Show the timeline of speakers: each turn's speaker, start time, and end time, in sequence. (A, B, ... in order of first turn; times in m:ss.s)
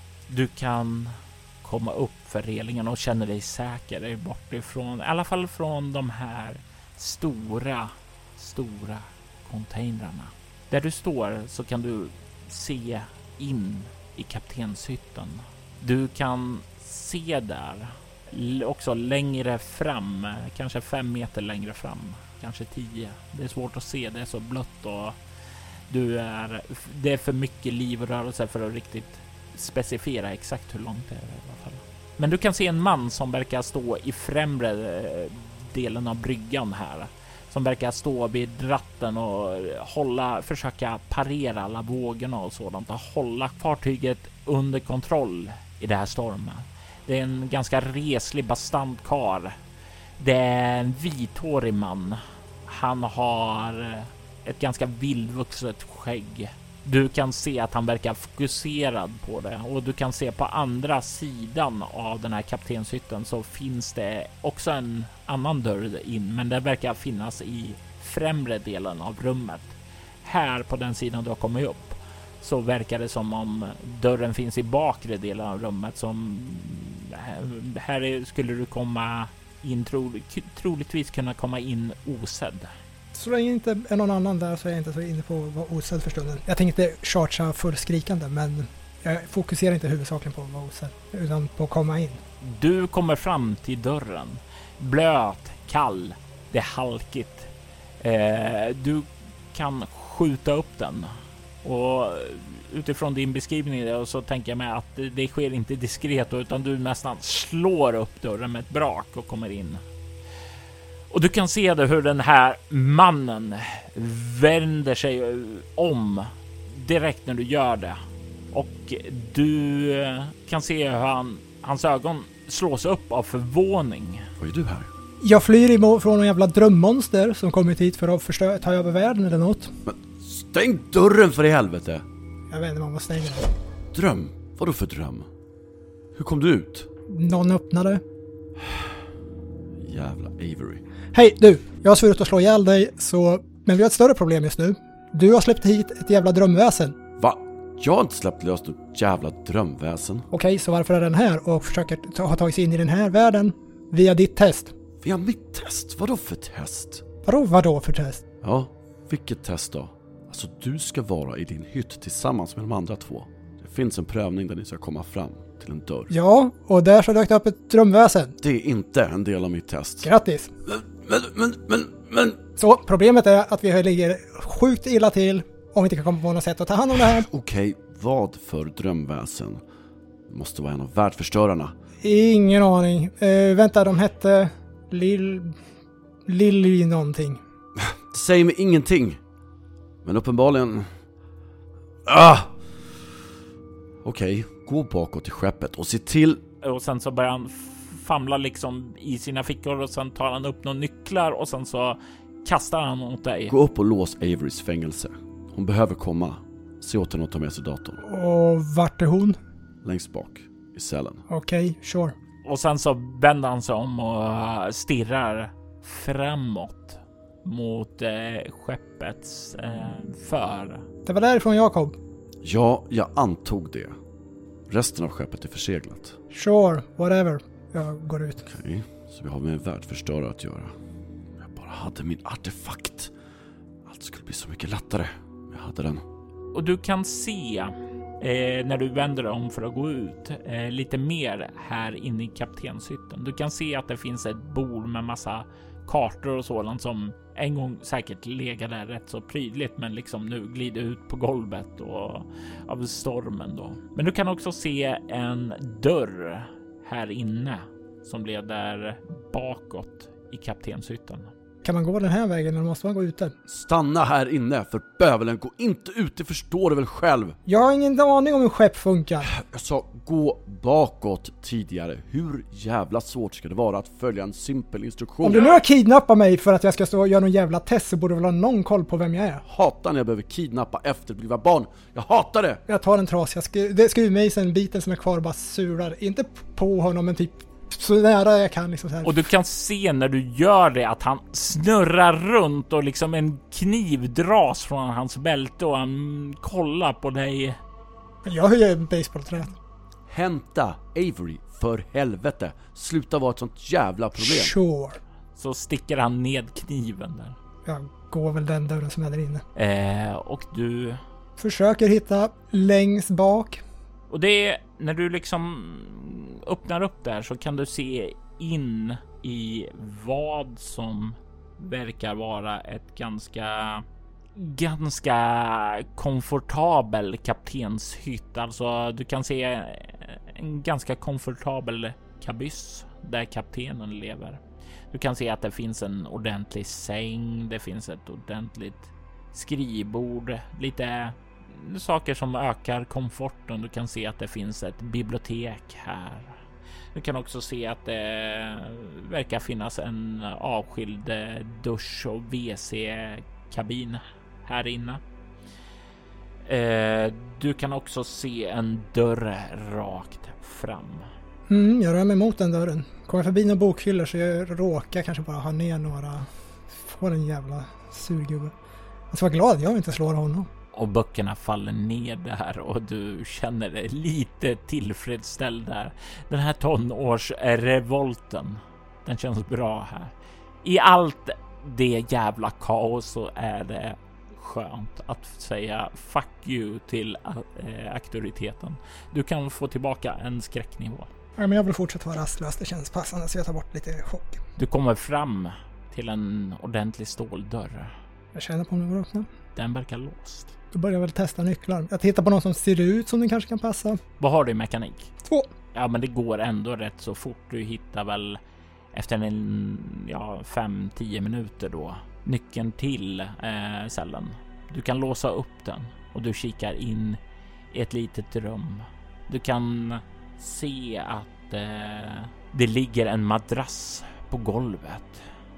0:00.3-0:25.2 A
0:25.9-0:49.6 A
0:50.2-1:22.7 A
1:23.1-1:32.2 B
1:32.4-1:49.8 A
1:51.1-1:58.0 A
1:58.5-2:04.3 A
2:04.4-2:04.9 C
2:05.2-2:09.7 B
2:09.8-2:12.0 C
2:12.5-2:13.5 B
2:13.9-2:15.3 C
2:16.1-2:16.9 C
2:17.1-2:18.0 B
2:19.8-2:20.8 C
2:21.1-2:27.0 B
2:27.2-2:30.3 C
2:30.3-2:34.7 B
2:35.0-2:37.1 C
2:37.2-2:38.2 B
2:38.4-2:46.1 C
2:46.1-2:48.4 B
2:48.4-2:50.1 C
2:50.0-2:50.5 B
2:50.7-2:52.4 C
2:52.6-2:57.3 B
2:57.2-2:59.6 C
3:00.3-3:01.7 C
3:02.0-3:05.6 B
3:06.2-3:07.4 B
3:07.8-3:09.2 C
3:10.0-3:11.0 C
3:12.0-3:12.6 C
3:14.0-3:16.4 C
3:16.6-3:23.5 A
3:23.5-3:28.0 C
3:28.0-3:29.4 B
3:29.8-3:31.2 C
3:31.3-3:32.2 B
3:32.4-3:40.8 A
3:41.0-3:42.0 B
3:42.4-3:44.0 C
3:44.7-3:46.2 C
3:46.3-3:48.4 B
3:48.5-3:50.8 C
3:51.4-3:53.1 C
3:53.8-3:56.0 C
3:56.5-4:21.3 A
4:21.6-4:23.4 B
4:23.5-4:27.4 C
4:27.4-4:29.3 B
4:29.3-4:35.5 C
4:35.2-4:39.4 B
4:39.5-4:42.6 C
4:42.7-4:49.3 B
4:49.0-4:57.6 A
4:58.2-4:59.6 B
5:00.1-5:04.6 C
5:04.2-5:05.0 B
5:05.4-5:07.4 A
5:07.6-5:09.4 B
5:09.6-5:11.0 A
5:11.4-5:13.6 B
5:14.1-5:23.8 A
5:24.4-5:34.4 A
5:34.9-5:46.4 A
5:46.9-5:55.0 A
5:56.4-6:01.1 A
6:01.5-6:08.5 B
6:09.1-6:10.5 B
6:10.7-6:31.1 A
6:31.4-6:34.4 B
6:34.6-6:37.9 A
6:38.3-6:39.3 B
6:39.6-6:40.6 A
6:40.7-6:44.0 B
6:44.2-6:45.1 A
6:45.2-6:45.5 B
6:45.7-6:48.4 A
6:48.9-6:57.2 A
6:57.7-7:05.2 A